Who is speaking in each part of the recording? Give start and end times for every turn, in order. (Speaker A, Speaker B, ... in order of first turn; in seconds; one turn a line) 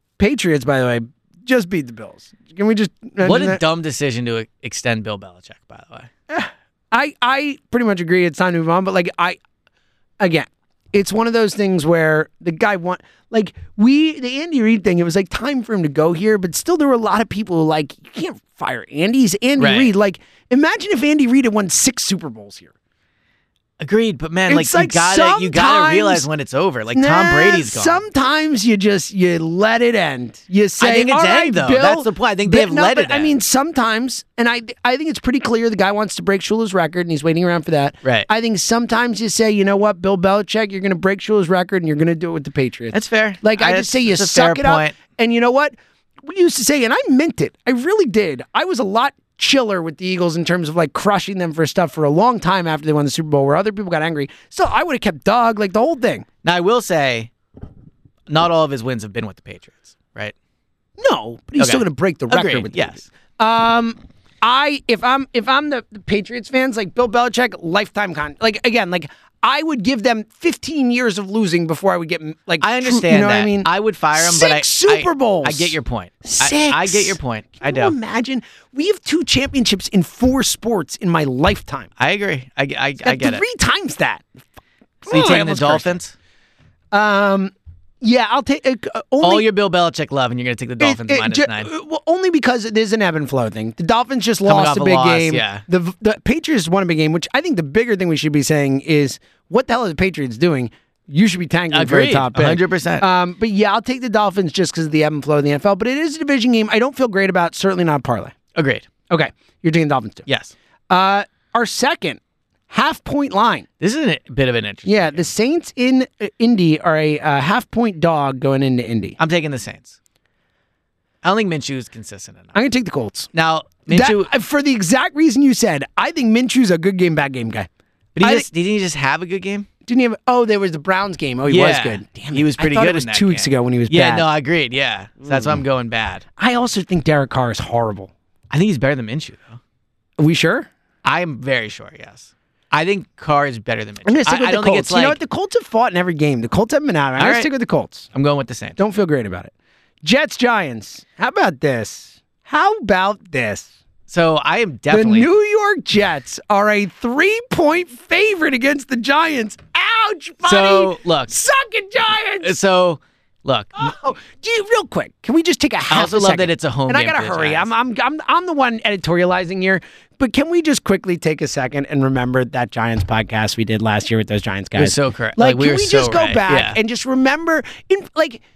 Speaker A: 0.2-3.6
Speaker B: 3.2-6.1
Speaker A: 6.3-9.4
Speaker A: 10.2-22.7
Speaker B: 19.6-19.9
Speaker B: 23.8-28.0
Speaker A: 24.5-26.3
Speaker A: 26.9-56.3
Speaker B: 30.8-33.3
Speaker B: 42.9-45.0
Speaker B: 56.4-57.3
Speaker B: 58.3-60.3
Speaker A: 61.0-81.9
Speaker B: 61.6-63.0
Speaker B: 72.6-78.0
Speaker B: 82.0-83.4
Speaker A: 83.0-84.2
Speaker A: 85.0-86.0
Speaker B: 85.1-86.1
Speaker A: 86.9-89.5
Speaker B: 89.2-91.7
Speaker A: 90.8-108.3
Speaker B: 94.5-95.6
Speaker B: 101.7-103.1
Speaker B: 108.5-108.9
Speaker A: 109.1-110.2
Speaker B: 110.3-110.5
Speaker A: 110.9-113.7
Speaker B: 113.8-115.3
Speaker A: 114.9-119.2
Speaker B: 119.2-120.0
Speaker B: 121.2-122.6
Speaker A: 122.5-123.3
Speaker B: 123.3-124.3
Speaker A: 123.9-127.7
Speaker B: 128.2-129.7
Speaker A: 128.2-128.5
Speaker A: 129.9-134.3
Speaker B: 131.5-136.2
Speaker A: 135.3-135.6
Speaker A: 136.4-138.1
Speaker B: 138.5-139.6
Speaker A: 140.2-140.7
Speaker B: 141.0-145.2
Speaker A: 144.1-148.1
Speaker B: 147.2-147.5
Speaker B: 148.1-148.8
Speaker A: 148.8-153.7
Speaker B: 154.1-155.3
Speaker A: 154.9-162.5
Speaker B: 160.4-161.4
Speaker B: 162.4-163.9
Speaker A: 163.8-178.4
Speaker B: 165.9-167.7
Speaker B: 174.8-176.8